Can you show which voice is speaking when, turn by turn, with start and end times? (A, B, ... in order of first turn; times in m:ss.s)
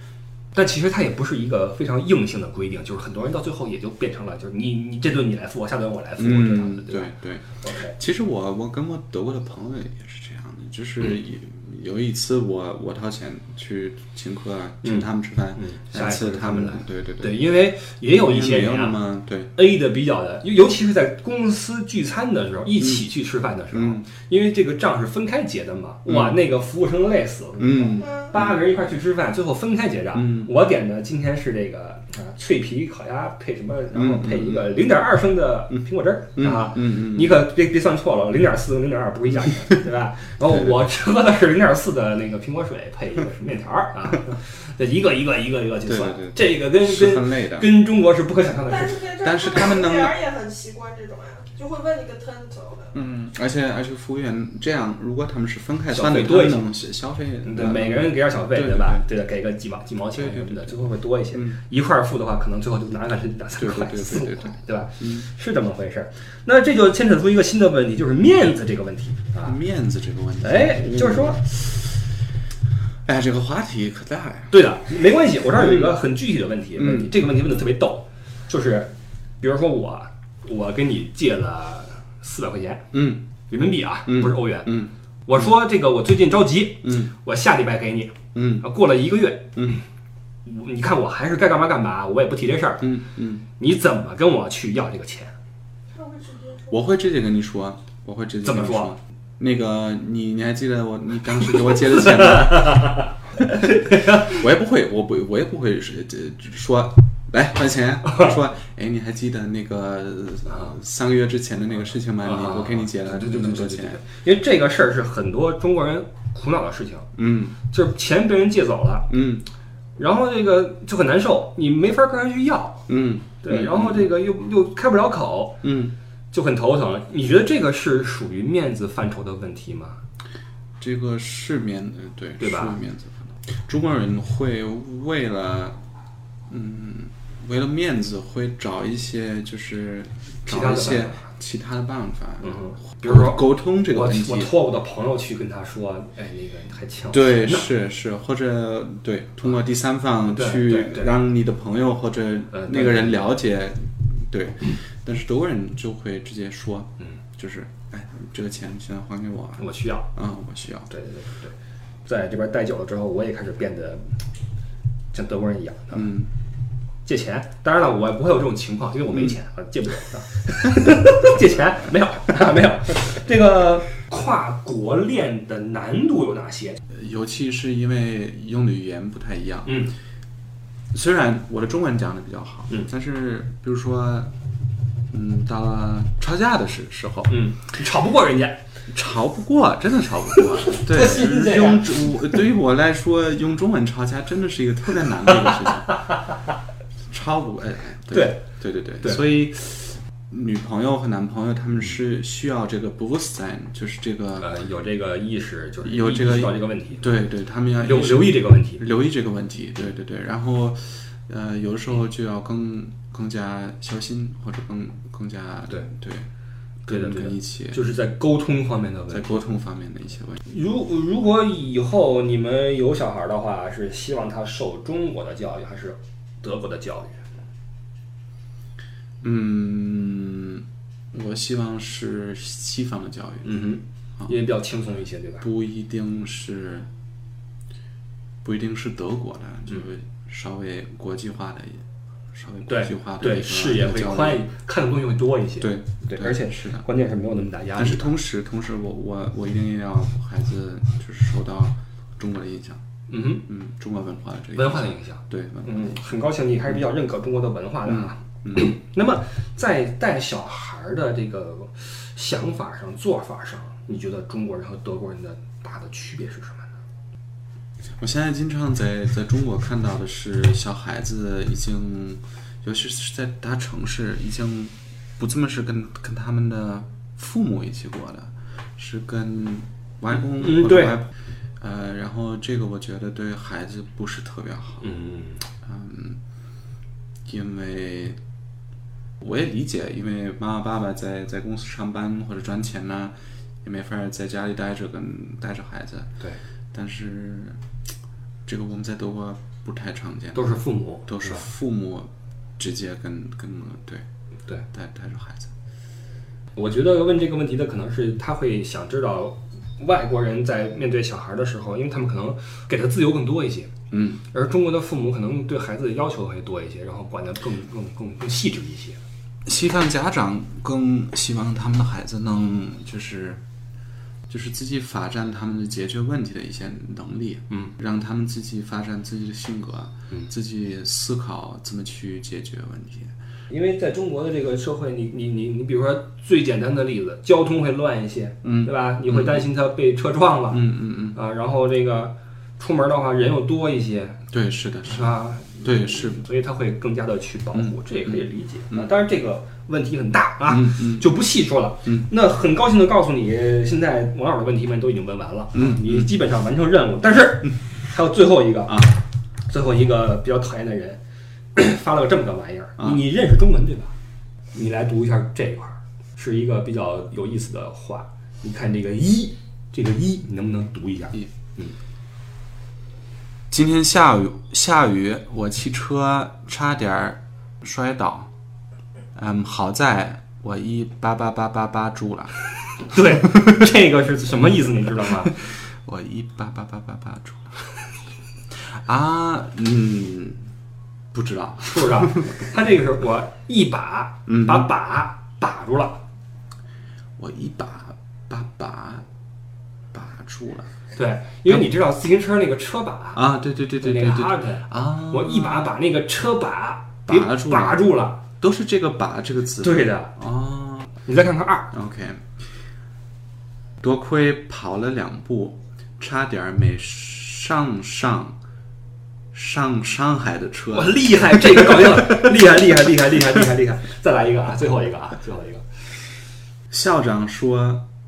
0:00.5-0:07.1 A
0:06.2-0:17.5 B
0:07.6-0:08.0 A
0:14.8-0:19.0 A
0:18.1-0:19.5 B
0:19.6-0:49.0 A
0:23.7-0:24.0 B
0:26.1-0:26.3 B
0:27.6-0:28.5 B
0:28.0-0:28.3 C
0:30.1-0:30.5 B
0:33.9-0:34.6 B
0:36.4-0:37.4 B
0:45.9-0:47.7 B
0:48.7-0:53.0 C
0:49.2-0:50.2 B
0:52.9-0:59.0 B
0:55.9-0:56.6 A
0:57.4-1:09.6 A
1:00.1-1:00.8 B
1:03.6-1:05.2 B
1:09.4-1:11.6 B
1:10.4-1:11.5 A
1:13.0-1:14.5 B
1:14.5-1:22.9 A
1:15.6-1:16.0 B
1:16.8-1:17.1 B
1:22.9-1:23.2 B
1:23.5-1:29.6 A
1:24.1-1:24.9 B
1:26.8-1:27.1 B
1:28.3-1:28.6 B
1:29.6-1:29.8 B
1:30.4-1:32.9 A
1:32.8-1:33.4 B
1:33.6-1:35.3 A
1:35.9-1:36.8 C
1:36.7-1:43.0 B
1:38.4-1:38.9 A
1:41.9-1:44.3 A
1:43.5-1:54.0 B
1:48.0-1:48.4 A
1:52.2-1:57.1 A
1:57.2-1:57.6 B
1:57.7-1:59.1 A
1:59.1-1:59.4 B
2:00.0-2:02.8 A
2:02.9-2:04.1 B
2:03.4-2:05.6 A
2:05.6-2:05.9 B
2:06.3-2:10.0 A
2:10.8-2:15.8 B
2:12.4-2:12.8 A
2:16.5-2:24.5 B
2:20.4-2:21.2 A
2:22.4-2:27.7 A
2:27.1-2:40.9 B
2:30.3-2:31.1 A
2:32.5-2:33.3 A
2:39.6-2:40.1 A
2:40.9-2:44.0 A
2:45.1-2:46.1 A
2:45.9-2:46.3 B
2:47.0-2:56.8 A
2:56.9-2:59.9 B
2:59.6-2:59.9 A
3:00.9-3:04.3 B
3:05.1-3:07.4 B
3:07.3-3:08.6 A
3:08.9-3:16.0 B
3:10.3-3:12.1 A
3:15.4-3:16.4 A
3:17.1-3:24.5 B
3:18.1-3:18.4 A
3:24.4-3:27.0 A
3:25.8-3:36.3 B
3:27.8-3:28.8 A
3:36.8-3:37.8 B
3:36.9-3:39.4 A
3:39.1-3:40.4 B
3:40.4-3:47.2 A
3:49.2-3:53.6 B
3:53.4-3:55.4 A
3:55.4-3:56.9 B
3:58.4-4:04.4 B
4:02.6-4:08.2 A
4:05.6-4:06.8 B
4:07.8-4:12.8 B
4:13.1-4:13.4 A
4:13.4-4:15.8 B
4:14.5-4:26.7 A
4:17.8-4:18.7 B
4:28.0-4:44.8 B
4:40.1-4:41.0 A
4:44.8-4:45.4 A
4:45.6-4:46.2 B
4:47.2-4:48.2 B
4:49.2-4:56.1 B
4:56.7-4:57.6 B
4:58.4-5:04.0 B
5:00.3-5:01.4 A
5:04.7-5:05.5 B
5:06.6-5:13.7 A
5:13.9-5:14.2 B
5:14.3-5:19.0 A
5:19.4-5:23.4 B
5:24.3-5:33.1 B
5:33.5-5:44.2 A
5:38.4-5:39.5 B
5:40.5-5:41.2 B
5:44.3-5:46.2 B
5:44.9-5:58.9 A
5:47.5-5:48.9 B
5:50.5-5:51.1 B
5:55.5-5:56.1 B
5:59.5-6:01.0 A
6:01.5-6:03.9 A
6:04.5-6:11.7 A
6:13.5-6:18.3 B
6:19.1-6:22.4 B
6:22.8-6:25.3 A
6:25.1-6:27.7 B
6:28.5-6:30.4 B
6:31.1-6:32.5 B
6:31.7-6:36.0 A
6:34.3-6:34.7 B
6:37.2-6:39.0 B
6:39.9-6:40.7 B
6:40.9-6:43.2 A
6:43.2-6:45.7 B
6:43.8-6:48.2 A
6:47.1-6:50.9 B
6:49.6-6:50.1 A
6:51.0-6:51.7 A
6:51.7-6:52.3 B
6:53.8-6:58.4 B
6:59.3-7:02.0 B
7:00.7-7:05.6 A
7:06.7-7:07.8 B